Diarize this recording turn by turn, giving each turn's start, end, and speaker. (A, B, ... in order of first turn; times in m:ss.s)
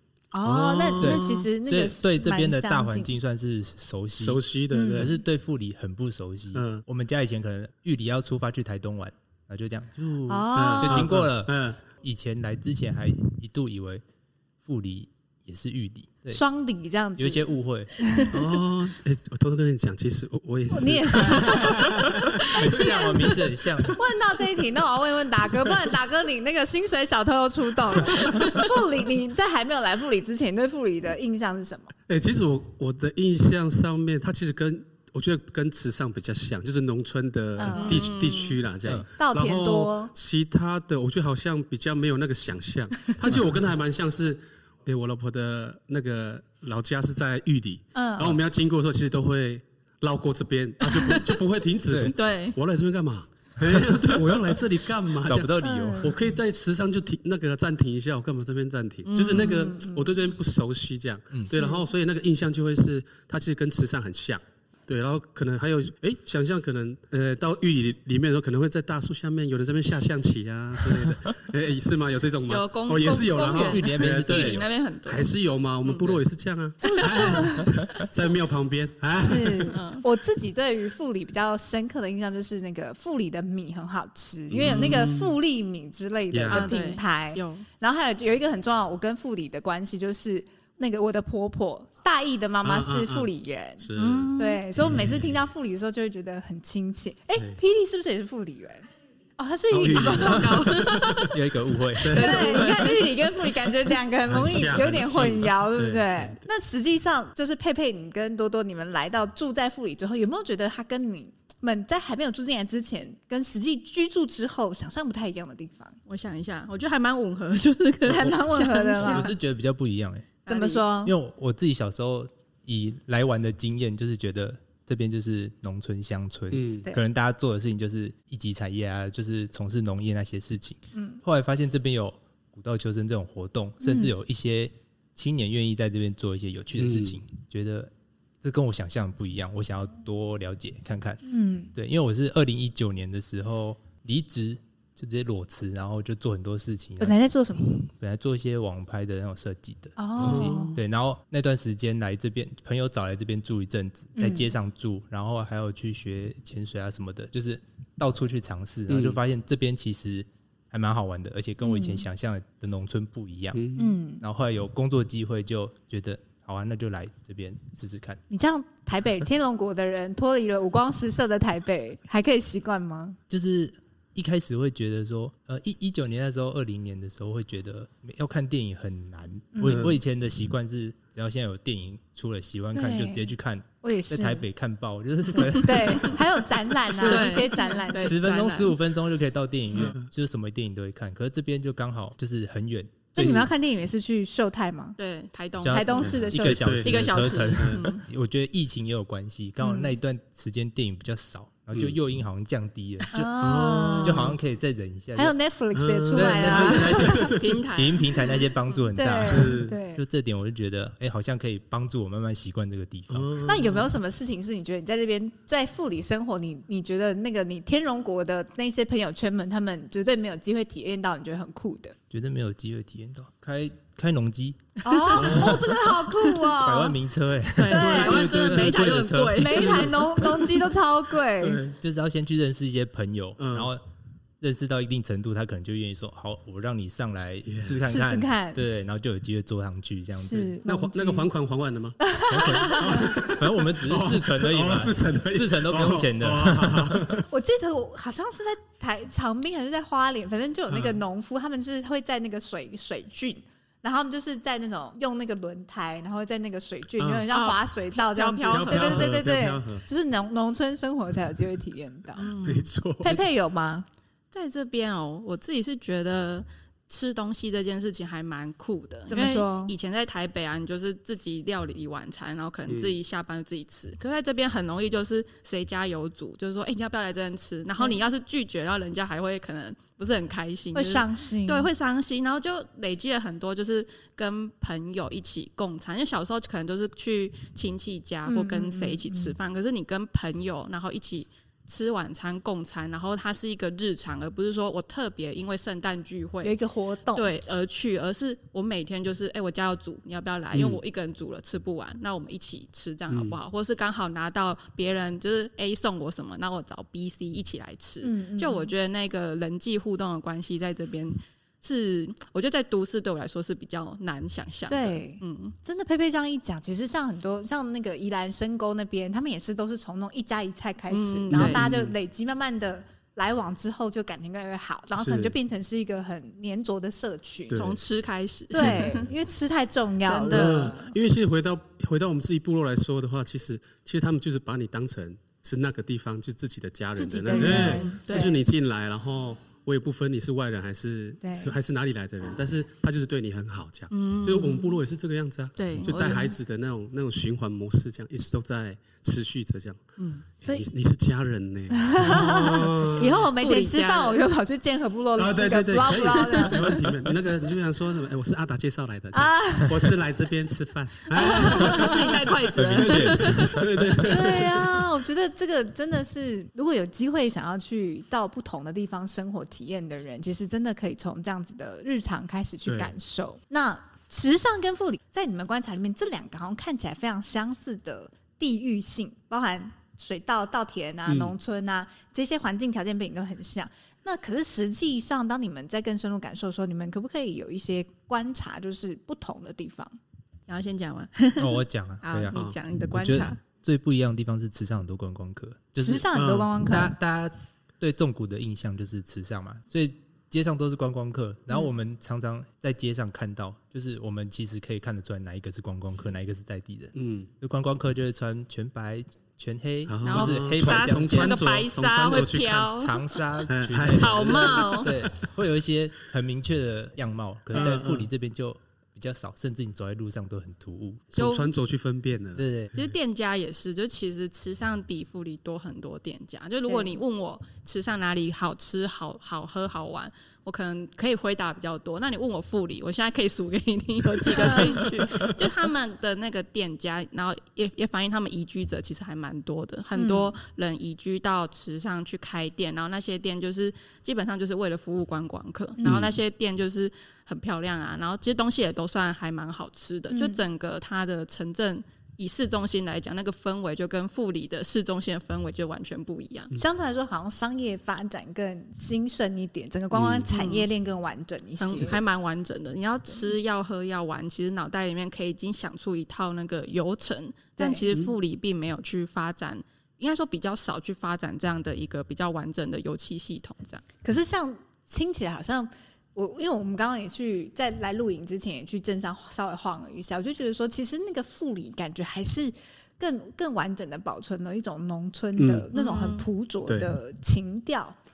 0:00.3-0:03.1 A
0:00.4-0:01.4 B
0:01.0-0:14.0 C
0:04.2-0:05.2 B
0:04.7-0:05.1 A
0:06.5-0:06.8 B
0:10.3-0:11.1 A
0:10.5-0:11.8 B
0:14.6-0:16.4 C
0:16.3-0:18.4 A
0:17.2-0:18.1 C
0:18.3-0:23.9 B
0:20.7-0:31.9 A
0:22.5-0:24.0 C
0:28.3-0:28.6 D
0:32.1-1:19.8 B
0:37.6-0:38.1 A
0:37.6-0:38.6 D
0:39.2-0:40.1 A
0:48.0-0:48.4 A
0:50.9-0:51.3 D
0:52.1-0:52.6 D
0:53.6-0:54.1 C
0:55.2-0:56.2 C
0:55.6-0:56.2 A
0:59.1-0:59.7 D
0:59.2-1:00.2 A
1:12.5-1:15.3 D
1:13.5-1:14.7 C
1:15.8-1:16.2 D
1:16.8-1:17.6 A
1:16.8-1:17.7 D
1:17.6-1:17.9 C
1:19.1-1:38.9 A
1:19.7-1:20.0 D
1:24.5-1:25.4 B
1:24.6-1:25.0 D
1:26.3-1:26.7 B
1:26.5-1:27.7 D
1:32.6-1:33.3 B
1:33.8-1:35.4 B
1:34.0-1:34.6 D
1:39.4-1:40.7 A
1:39.7-1:41.3 B
1:39.9-1:41.4 D
1:41.2-1:42.6 C
1:42.0-1:43.0 B
1:42.1-1:43.2 D
1:42.1-1:56.0 A
1:44.3-1:46.5 B
1:56.1-1:59.3 D
1:58.1-1:59.3 A
1:59.0-2:00.4 C
2:00.5-2:00.9 D
2:00.5-2:01.1 A
2:01.0-2:17.9 C
2:06.5-2:06.9 B
2:10.9-2:11.2 A
2:13.8-2:14.1 A
2:16.8-2:17.2 B
2:18.4-2:21.2 C
2:21.2-2:21.7 A
2:21.8-2:27.2 C
2:27.0-2:27.9 A
2:27.7-2:43.6 C
2:30.0-2:30.8 A
2:30.2-2:30.6 B
2:34.2-2:34.5 A
2:38.9-2:39.2 B
2:41.6-2:42.0 A
2:43.6-2:43.9 B
2:43.8-2:44.2 A
2:44.2-2:48.2 C
2:48.3-2:53.2 A
2:53.3-3:13.5 C
2:59.5-2:59.9 A
2:59.6-3:00.0 B
3:02.7-3:03.3 A
3:03.8-3:04.4 A
3:05.5-3:06.1 D
3:05.6-3:08.2 A
3:07.0-3:08.8 D
3:13.1-3:15.0 A
3:13.2-3:13.5 B
3:15.0-3:16.2 D
3:15.6-3:25.4 C
3:15.7-3:16.7 A
3:16.0-3:18.0 B
3:16.8-3:18.0 D
3:19.6-3:19.9 A
3:23.1-3:24.3 A
3:23.4-3:24.4 B
3:23.7-3:24.0 D
3:25.2-3:27.3 A
3:25.7-3:27.6 B
3:26.1-3:33.5 C
3:27.2-3:28.2 D
3:29.0-3:30.0 A
3:29.2-3:29.7 B
3:33.1-3:33.9 B
3:33.4-3:42.0 A
3:42.1-3:44.7 C
3:44.8-3:47.0 A
3:44.9-3:45.4 D
3:45.1-3:45.7 B
3:45.2-3:45.6 C
3:46.6-3:50.1 C
3:47.6-3:49.9 D
3:47.7-3:48.3 A
3:47.9-3:49.2 B
3:49.4-3:51.6 A
3:51.4-3:51.8 B
3:51.8-3:53.8 C
3:53.4-3:53.7 B
3:54.4-4:00.6 C
3:57.5-3:57.8 B
3:57.8-3:58.6 A
4:00.1-4:01.3 A
4:00.6-4:07.3 B
4:02.0-4:03.1 A
4:02.3-4:07.1 C
4:07.3-4:22.3 A
4:10.7-4:11.0 B
4:17.0-4:17.3 B
4:17.3-4:19.2 D
4:18.5-4:19.8 B
4:22.2-4:22.7 D
4:22.4-4:23.2 B
4:23.0-4:23.9 A
4:24.3-4:56.6 D
4:29.1-4:29.8 A
4:32.7-4:33.0 B
4:40.8-4:41.7 A
4:48.3-4:49.3 A
4:56.4-4:57.3 A
4:57.1-5:15.6 D
5:00.5-5:00.8 B
5:03.1-5:03.4 B
5:08.0-5:08.7 A
5:14.7-5:27.6 A
5:20.9-5:21.6 D
5:21.3-5:21.9 B
5:25.0-5:25.3 B
5:27.5-5:27.8 B
5:27.6-5:29.1 D
5:28.5-5:31.0 A
5:28.6-5:28.9 B
5:30.1-5:30.7 D
5:30.3-5:53.3 B
5:37.0-5:38.4 A
5:37.3-5:38.4 D
5:41.2-5:41.5 A
5:43.9-5:44.8 D
5:45.6-5:46.3 D
5:51.8-5:56.8 A
5:52.2-5:52.5 D
5:53.4-5:54.3 D
5:55.2-6:04.8 B
5:59.1-5:59.9 A
6:01.2-6:03.6 D
6:01.2-6:02.1 A
6:02.6-6:04.2 C
6:04.0-6:30.0 A
6:12.7-6:12.9 B
6:21.1-6:21.3 B
6:30.5-6:33.4 D
6:31.4-6:32.4 C
6:32.9-6:36.1 C
6:35.8-6:36.9 A
6:36.1-6:36.5 B
6:36.6-6:51.4 C
6:47.0-6:47.3 B
6:49.9-6:52.7 B
6:50.0-6:53.0 D
6:52.3-7:01.1 C
6:53.5-6:55.3 B
6:53.8-6:55.0 D
6:57.5-6:58.1 B
7:01.1-7:02.5 B
7:01.2-7:01.5 D
7:02.4-7:02.7 C
7:02.8-7:36.5 D
7:06.7-7:07.0 A
7:14.3-7:14.8 A
7:20.0-7:20.3 A
7:25.8-7:26.0 A
7:25.8-7:26.2 B
7:30.1-7:30.4 A
7:36.6-7:42.0 A
7:39.9-7:40.3 B
7:40.3-7:40.7 D
7:41.6-7:53.8 D
7:47.6-7:47.8 A
7:54.0-8:08.0 A
8:05.4-8:05.7 B
8:05.7-8:06.3 D